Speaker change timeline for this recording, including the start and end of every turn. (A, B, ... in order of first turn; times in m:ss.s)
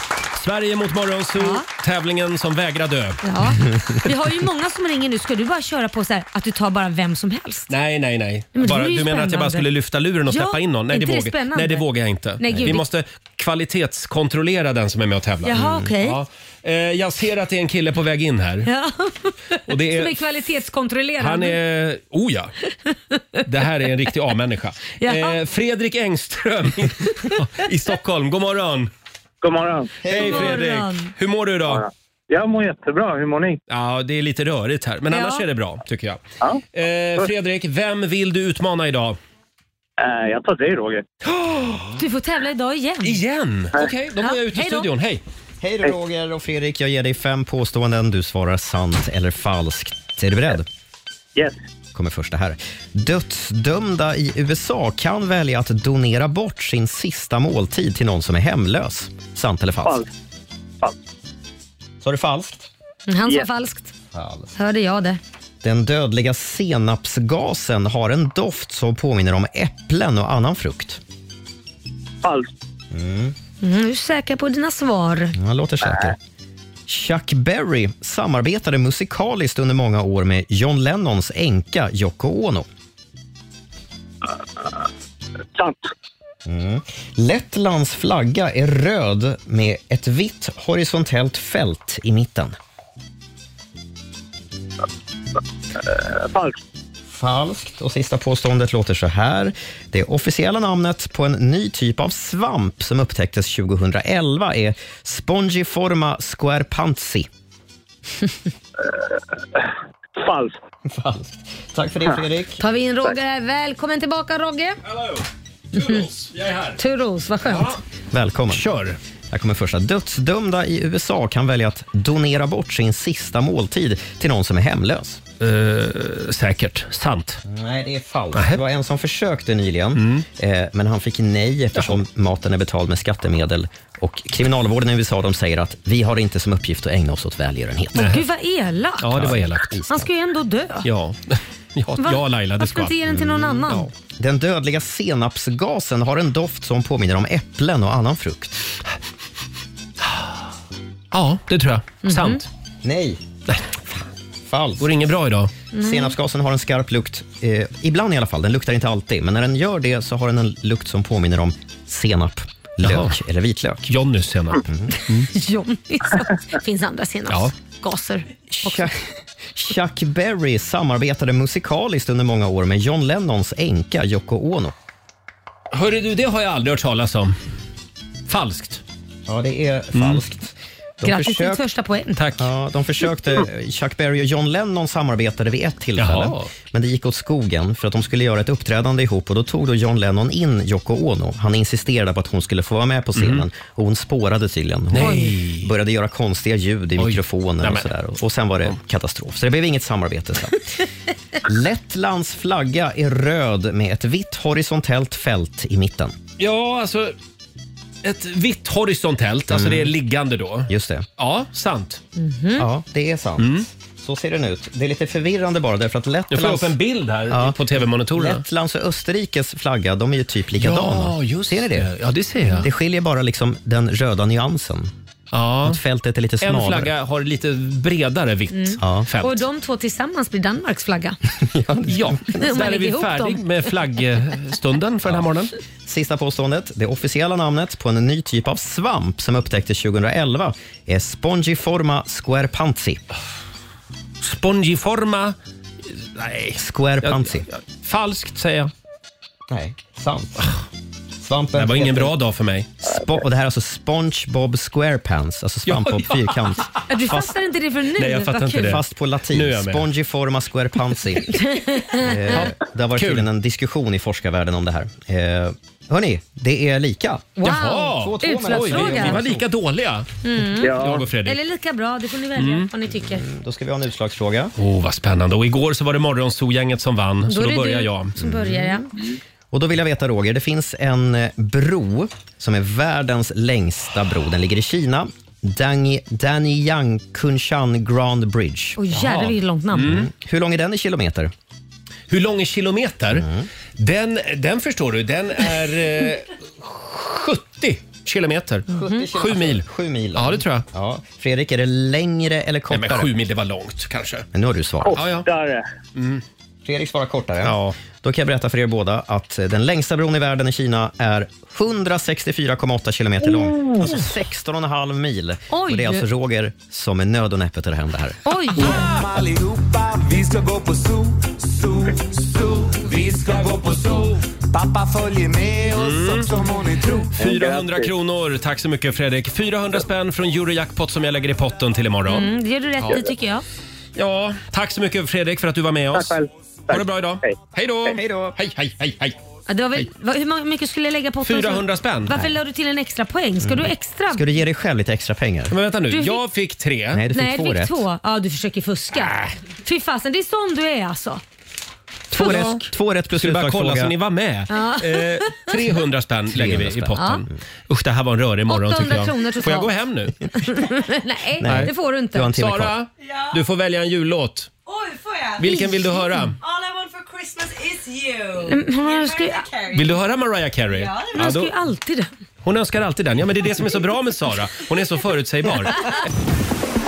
0:00.4-0:03.2 A
0:01.4-0:01.6 B
0:03.2-0:07.7 B
0:07.7-0:18.7 A
0:08.6-0:09.7 B
0:10.3-0:11.9 B
0:12.4-0:12.8 B
0:12.5-0:12.8 C
0:15.4-0:16.2 B
0:15.5-0:15.9 C
0:18.6-0:21.6 B
0:19.7-0:20.2 A
0:21.2-0:22.5 A
0:22.9-0:23.4 B
0:23.5-0:28.9 A
0:25.0-0:25.4 B
0:29.4-0:30.0 D
0:30.0-0:31.8 A
0:30.1-0:30.4 C
0:30.1-0:31.1 B
0:31.7-0:33.6 D
0:33.7-0:36.2 A
0:35.1-0:35.4 B
0:36.7-0:39.2 A
0:40.0-0:41.0 D
0:41.2-0:42.0 A
0:42.0-0:43.2 B
0:43.0-0:45.2 A
0:44.2-0:44.9 B
0:45.6-0:50.7 C
0:51.9-1:00.1 C
1:02.0-1:02.7 C
1:03.1-1:03.9 B
1:04.1-1:04.5 C
1:04.6-1:05.2 B
1:05.6-1:11.0 C
1:12.2-1:12.5 D
1:12.9-1:13.4 C
1:13.6-1:15.4 B
1:15.4-1:16.2 C
1:16.9-1:22.7 C
1:25.6-1:25.9 D
1:26.4-1:32.6 C
1:35.9-1:36.6 D
1:37.1-1:47.3 C
1:48.8-1:50.6 D
1:50.9-1:52.6 C
1:52.6-1:54.8 B
1:54.9-1:56.8 A
1:55.7-1:56.1 B
1:56.8-1:57.8 B
1:57.4-1:57.8 A
1:58.1-1:58.7 C
1:58.5-1:59.0 A
1:59.3-2:05.2 C
2:05.4-2:07.4 A
2:07.5-2:18.1 C
2:10.0-2:10.2 A
2:17.9-2:19.4 B
2:18.0-2:18.2 A
2:19.0-2:19.7 A
2:19.1-2:20.1 C
2:19.9-2:20.9 B
2:20.8-2:23.8 A
2:22.0-2:23.9 B
2:23.1-2:28.8 C
2:30.0-2:30.3 A
2:31.1-2:32.5 A
2:32.0-2:32.4 B
2:32.8-2:33.2 C
2:34.5-2:34.9 C
2:34.8-2:35.5 A
2:35.7-2:36.1 B
2:35.8-2:43.9 C
2:42.8-2:43.2 A
2:43.9-2:45.3 A
2:44.6-2:44.9 C
2:44.9-2:48.9 B
2:48.5-2:48.9 C
2:49.5-2:54.7 C
2:55.7-2:57.4 A
2:58.3-2:58.8 A
2:59.3-3:01.6 C
2:59.9-3:00.2 A
3:01.0-3:02.2 B
3:02.2-3:02.5 A
3:02.4-3:20.9 C
3:06.0-3:06.5 A
3:13.2-3:13.4 A
3:14.9-3:15.7 A
3:15.0-3:15.3 B
3:17.0-3:17.9 A
3:21.4-3:26.2 C
3:26.4-3:27.2 A
3:28.0-3:32.0 A
3:29.5-3:29.9 C
3:30.7-3:31.1 C
3:32.2-3:32.7 B
3:32.6-3:41.9 C
3:33.4-3:33.7 A
3:36.3-3:38.4 A
3:40.6-3:42.7 A
3:42.5-3:44.9 C
3:45.3-3:45.8 A
3:45.6-3:46.9 C
3:46.4-3:49.4 A
3:48.5-3:51.2 B
3:48.8-3:49.1 C
3:51.4-3:52.7 C
3:51.9-3:55.5 A
3:52.3-3:53.4 B
3:55.9-4:03.0 C
4:04.2-4:05.4 A
4:06.0-4:08.7 A
4:06.6-4:07.5 C
4:09.5-4:10.5 C
4:11.2-4:12.1 C
4:11.6-4:12.7 A
4:12.8-4:17.4 C
4:15.7-4:16.6 A
4:16.9-4:18.8 B
4:18.0-4:19.9 A
4:18.6-4:21.4 C
4:21.3-4:22.4 B
4:21.9-4:29.5 C
4:22.3-4:23.3 A
4:27.4-4:29.2 B
4:27.4-4:30.1 A
4:30.2-4:33.3 B
4:30.6-4:31.4 A
4:30.6-4:31.1 D
4:32.4-4:32.7 A
4:32.9-4:34.5 C
4:34.6-4:38.2 A
4:37.3-4:38.9 B
4:38.2-4:38.8 C
4:39.5-4:48.8 C
4:48.8-4:49.9 B
4:48.9-4:50.1 A
4:49.8-4:51.3 C
4:52.1-4:53.3 A
4:53.1-4:53.5 C
4:53.8-5:00.6 A
4:58.7-5:03.1 C
5:02.7-5:04.3 A
5:04.3-5:05.0 C
5:04.9-5:05.6 D
5:05.0-5:05.3 A
5:06.0-5:06.2 A
5:06.6-5:18.2 C
5:07.4-5:07.8 A
5:15.5-5:16.1 B
5:18.2-5:18.8 B
5:18.6-5:27.1 E
5:25.7-5:26.3 A
5:26.8-5:33.1 A
5:27.2-5:27.9 D
5:32.1-5:33.4 B
5:34.0-5:36.2 A
5:35.9-5:37.4 D
5:36.7-5:39.2 A
5:37.9-5:38.4 C
5:39.5-5:44.3 B
5:41.2-5:42.2 A
5:43.4-5:45.6 C
5:45.5-5:47.0 A
5:45.9-5:46.2 B
5:46.9-5:47.8 C
5:47.1-5:51.2 B
5:48.9-5:49.3 A
5:52.1-5:53.9 C
5:52.2-6:00.2 A
5:54.5-5:55.6 B
5:56.3-5:57.2 C
5:57.0-5:57.2 B
5:58.5-5:59.7 B
6:00.3-6:02.3 B
6:01.4-6:02.8 C
6:01.4-6:01.7 A
6:02.3-6:04.5 A
6:03.0-6:03.4 F
6:04.7-6:10.1 F
6:05.4-6:06.4 A
6:08.4-6:09.4 B
6:09.7-6:11.5 A
6:10.7-6:11.2 F
6:11.1-6:12.1 B
6:12.4-6:16.0 A